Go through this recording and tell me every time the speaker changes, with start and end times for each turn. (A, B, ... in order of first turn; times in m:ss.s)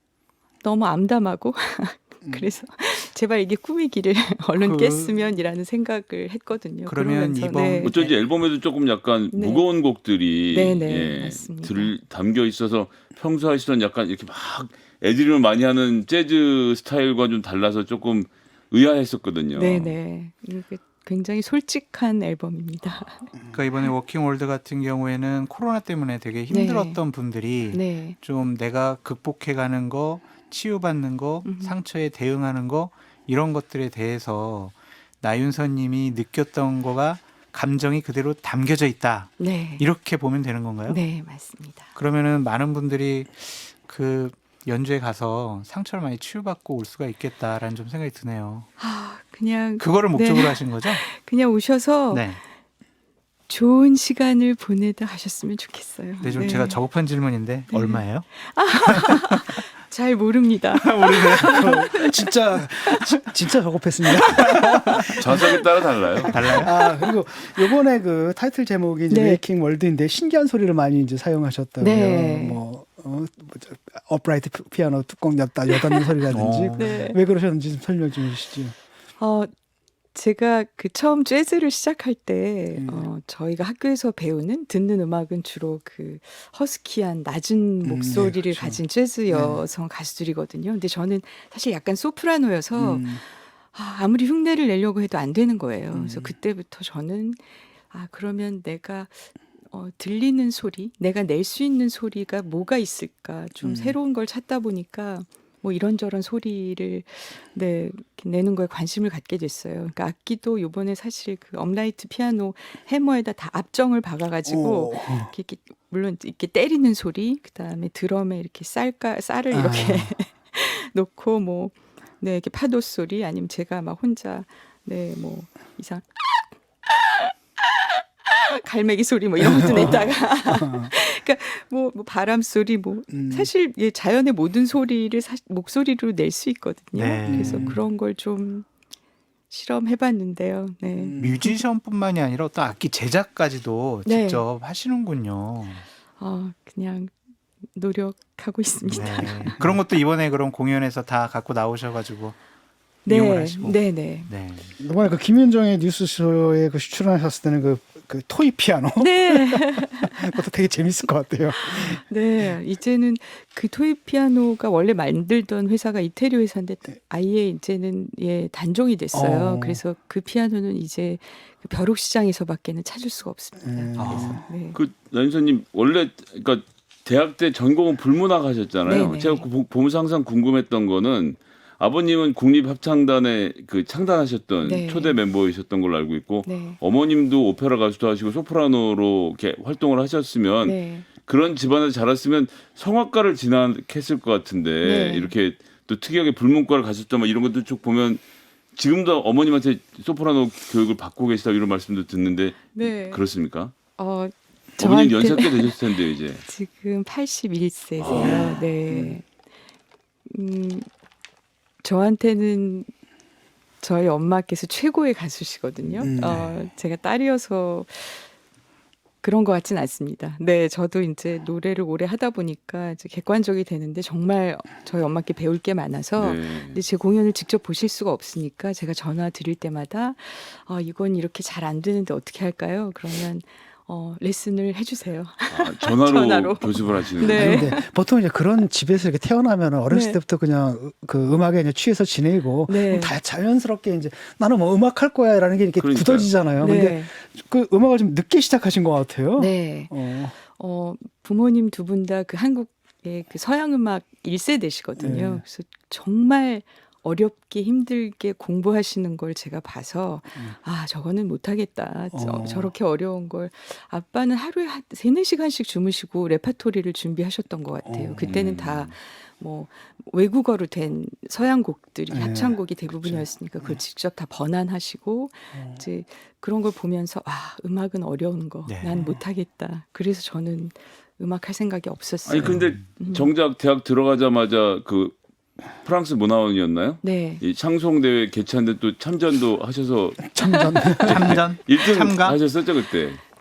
0:00.6-0:08.0 A
0:04.6-0:05.1 B
0:06.9-0:08.1 B
0:07.8-0:20.0 C
0:09.3-0:09.7 A
0:10.5-0:11.9 A
0:19.6-0:23.3 A
0:23.5-0:41.0 B
0:26.5-0:27.0 A
0:27.7-0:28.2 A
0:31.4-0:31.8 A
0:39.4-0:39.9 A
0:40.9-0:41.9 A
0:42.0-0:48.7 B
0:48.8-0:52.4 A
0:49.8-0:51.0 B
0:52.1-0:52.4 B
0:53.5-0:56.8 A
0:56.2-0:59.6 B
0:57.7-1:03.2 A
1:00.8-1:02.1 B
1:01.4-1:05.6 D
1:04.3-1:05.2 B
1:05.0-1:06.4 C
1:06.2-1:18.8 D
1:06.2-1:06.8 B
1:09.1-1:09.4 A
1:11.8-1:12.6 A
1:16.3-1:16.8 B
1:16.8-1:17.2 A
1:19.2-1:19.5 A
1:20.1-2:18.7 A
1:22.8-1:23.1 D
1:27.8-1:29.6 D
1:32.8-1:33.2 D
1:35.9-1:36.3 D
1:43.6-1:44.0 D
1:54.4-1:55.3 D
1:59.5-2:00.1 D
2:09.4-2:10.9 D
2:13.1-2:13.5 D
2:17.0-2:17.8 B
2:17.3-2:17.8 D
2:19.5-2:21.6 A
2:21.0-2:21.5 D
2:21.2-2:25.9 B
2:24.1-2:24.4 A
2:26.2-2:27.1 A
2:27.8-2:29.6 A
2:28.9-2:32.4 B
2:28.9-2:29.8 D
2:33.0-2:34.3 A
2:33.1-2:34.8 B
2:34.8-2:42.0 D
2:39.0-2:40.4 A
2:41.6-2:54.8 A
2:49.1-2:49.8 D
2:53.6-2:54.4 D
2:54.0-2:54.4 B
2:54.1-3:18.2 C
2:58.9-2:59.5 A
3:04.6-3:05.2 A
3:06.5-3:06.8 A
3:10.6-3:11.1 A
3:14.8-3:15.3 A
3:18.7-3:23.7 C
3:22.8-3:23.2 A
3:24.0-3:25.8 A
3:24.8-3:26.4 C
3:26.4-3:29.2 A
3:28.0-3:28.6 C
3:28.1-3:29.2 D
3:30.3-3:30.9 A
3:31.8-3:32.9 A
3:33.8-3:38.3 A
3:36.0-3:36.6 D
3:39.2-3:57.9 A
3:46.2-3:46.8 C
3:55.5-3:57.7 C
3:57.2-4:10.4 D
3:59.9-4:00.2 A
4:02.7-4:03.2 A
4:05.8-4:06.3 C
4:06.6-4:07.1 A
4:09.4-4:43.3 A
4:15.0-4:15.4 D
4:22.1-4:22.7 D
4:27.8-4:28.4 D
4:28.2-4:28.9 C
4:32.1-4:33.8 D
4:35.5-4:35.8 D
4:38.7-4:39.1 B
4:42.2-4:45.2 C
4:42.4-4:42.7 B
4:45.8-4:53.2 C
4:47.0-4:47.4 A
4:50.2-4:51.4 D
4:51.1-4:52.4 B